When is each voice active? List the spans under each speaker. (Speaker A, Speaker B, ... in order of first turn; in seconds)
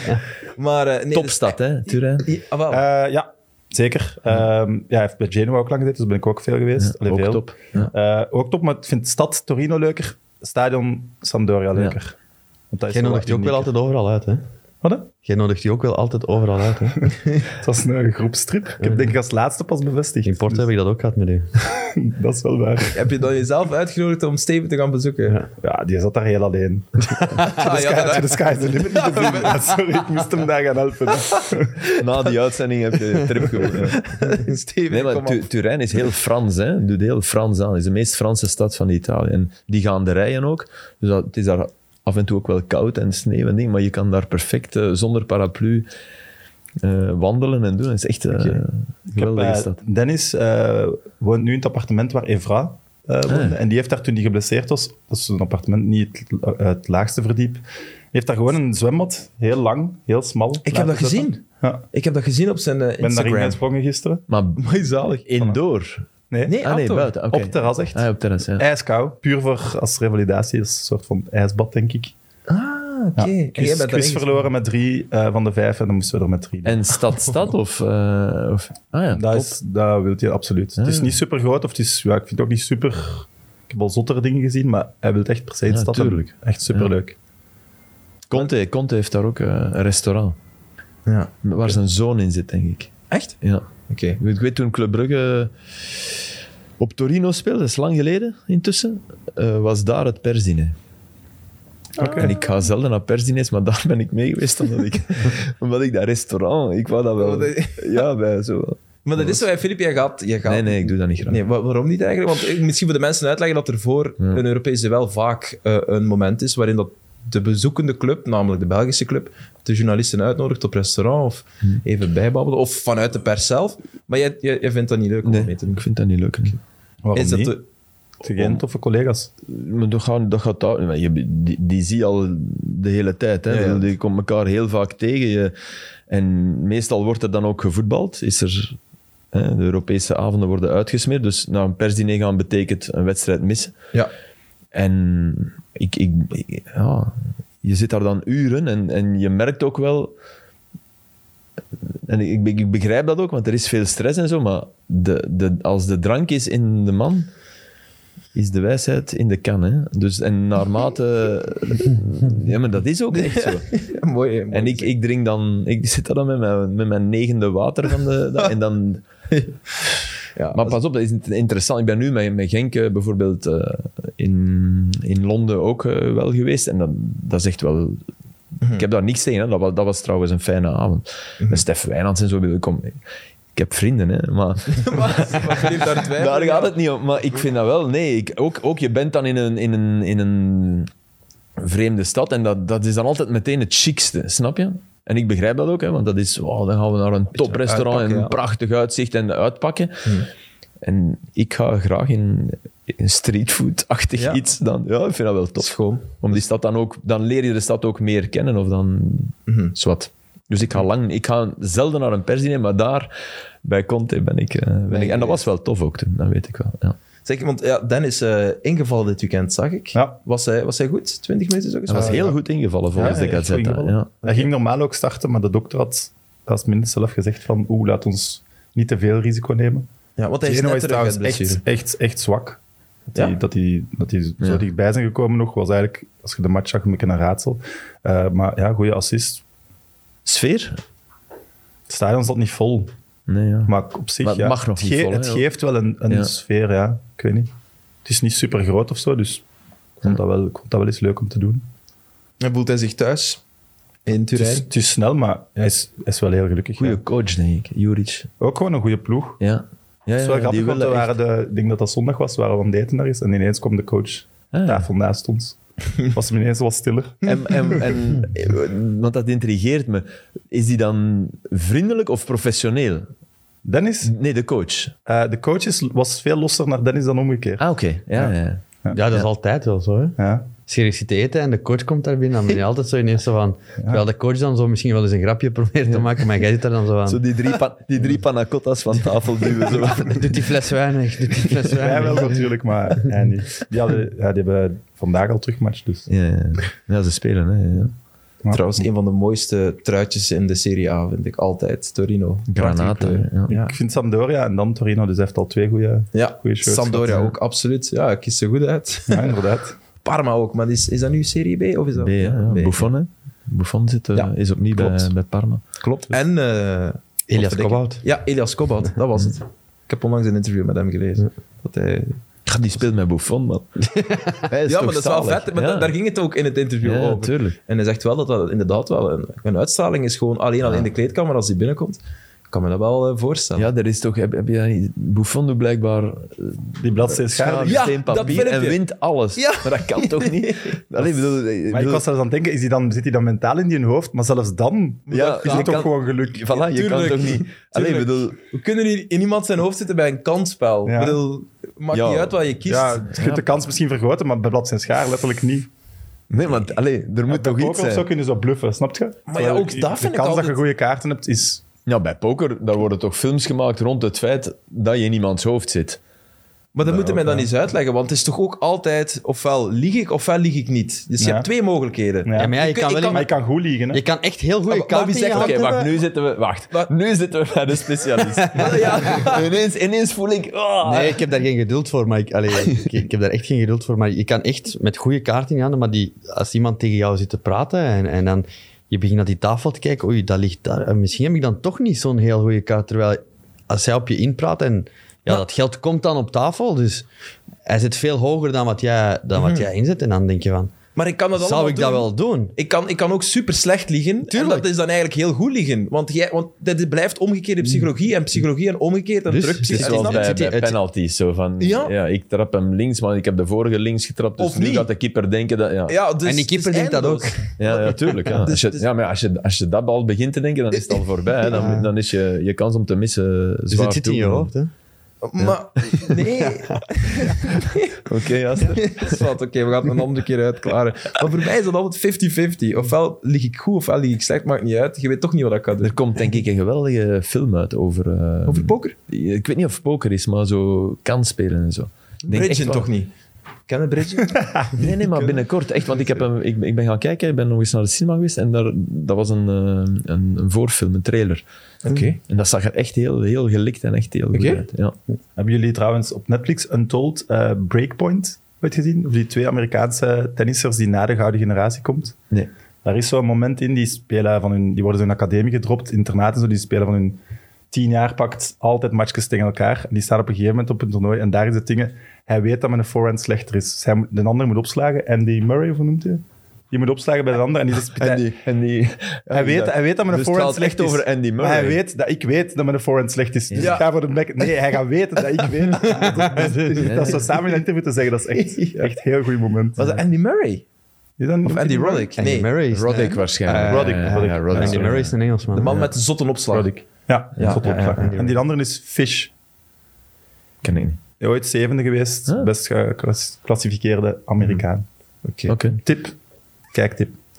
Speaker A: 0.6-1.6, 2.2-2.8, 22.9-25.4, 27.4-29.9, 33.6-35.5, 60.6-63.6, 64.6-65.3, 66.5-67.1, 72.5-74.5, 91.1-91.4, 93.1-93.4, 93.9-94.2, 102.0-102.4, 107.2-108.1, 109.0-125.8, 127.1-127.6, 133.5-133.9, 163.1-164.9, 170.3-170.8, 184.7-186.8, 197.4-198.3, 205.6-206.3, 209.5-209.8, 214.9-215.4, 217.2-222.4, 223.0-223.3, 224.2-224.5, 230.2-231.6, 252.4-253.4, 254.1-254.7, 298.5-303.8, 306.1-309.4, 310.0-312.9, 314.1-315.1, 315.8-322.2, 324.7-332.0, 332.5-333.7, 337.6-338.8, 339.4-340.8, 345.1-345.9, 346.5-353.1, 359.3-360.6, 366.8-373.3, 374.7-375.8, 378.5-379.5, 399.4-399.7, 400.9-410.4, 411.6-411.9, 414.4-414.9, 415.9-418.8, 425.2-428.0, 428.6-436.0, 438.5-438.9, 442.3-443.1, 443.7-445.4, 451.9-452.2, 454.3-454.6, 483.6-483.9, 485.8-487.5, 488.3-489.0, 489.8-490.6, 491.4-492.5, 495.5-496.7, 497.4-498.3, 505.2-505.6
Speaker B: 1.1-2.3, 6.8-7.9, 31.9-34.1, 34.9-45.9, 46.8-49.8, 53.3-53.6, 64.3-64.6, 65.2-66.0, 66.6-68.7, 76.7-79.6, 80.8-81.2, 85.7-86.9, 88.3-90.4, 91.4-96.2, 96.8-100.8, 102.2-109.4, 110.5-111.4, 125.2-126.6, 128.2-128.6, 129.4-135.5, 136.1-138.8, 139.3-143.7, 144.7-150.1, 152.1-157.3, 158.3-163.7, 164.5-169.1, 170.5-178.0, 178.8-183.0, 183.6-190.9, 191.6-200.1, 200.8-213.1, 213.6-217.0, 221.9-224.2, 240.2-240.8, 243.3-245.5, 256.8-258.3, 259.4-261.2, 264.5-264.9, 267.2-273.1, 274.0-274.9, 277.6-278.6, 287.1-290.5, 296.1-297.9, 302.5-303.5, 307.1-307.4, 312.0-316.1, 322.5-325.9, 326.8-327.6, 333.6-342.1, 345.1-348.4, 351.9-352.4, 353.1-353.5, 356.3-358.1, 361.9-366.0, 375.3-381.2, 409.3-416.0, 417.6-424.5, 425.4-426.2, 427.3-429.3, 435.8-442.9, 444.8-451.4, 452.2-455.0, 478.0-481.8, 483.5-483.8, 486.8-487.3, 492.7-495.2, 500.6-501.0, 505.5-505.8
Speaker C: 2.7-12.2, 12.7-13.7, 14.8-15.1, 17.5-20.7, 21.6-23.0, 25.6-32.3, 49.2-61.8, 63.0-64.2, 66.3-66.6, 67.3-68.1, 68.6-72.1, 73.2-76.9, 79.1-87.2, 102.0-102.3, 127.0-127.5, 128.2-129.3, 221.9-222.4, 222.9-229.9, 230.4-232.6, 233.1-239.4, 241.9-242.9, 243.7-247.5, 248.1-249.4, 250.0-251.6, 254.4-257.0, 258.4-259.4, 260.2-267.8, 273.6-274.1, 275.1-279.0, 280.2-280.5, 291.7-296.1, 303.5-307.2, 309.1-309.8, 336.8-337.9, 341.7-346.5, 350.9-351.2, 352.7-355.7, 357.3-361.6, 366.9-367.5, 371.2-371.5, 372.3-374.0, 455.4-462.2, 462.8-467.2, 467.7-478.3, 479.3-489.8, 491.2-492.1, 493.5-494.9, 496.5-499.3, 501.2-504.9, 505.8-506.1, 506.7-507.2
Speaker D: 12.9-14.4, 15.2-17.1, 18.8-19.1, 20.2-21.5, 278.9-287.2, 289.9-292.4, 317.3-318.0, 372.4-373.3, 373.9-375.9, 378.4-379.0, 380.8-397.1, 397.7-400.7, 401.4-402.5, 404.3-404.7, 409.7-410.8, 416.2-417.5, 421.5-421.9, 423.7-424.7, 426.4-426.8, 492.2-495.7, 497.9-498.4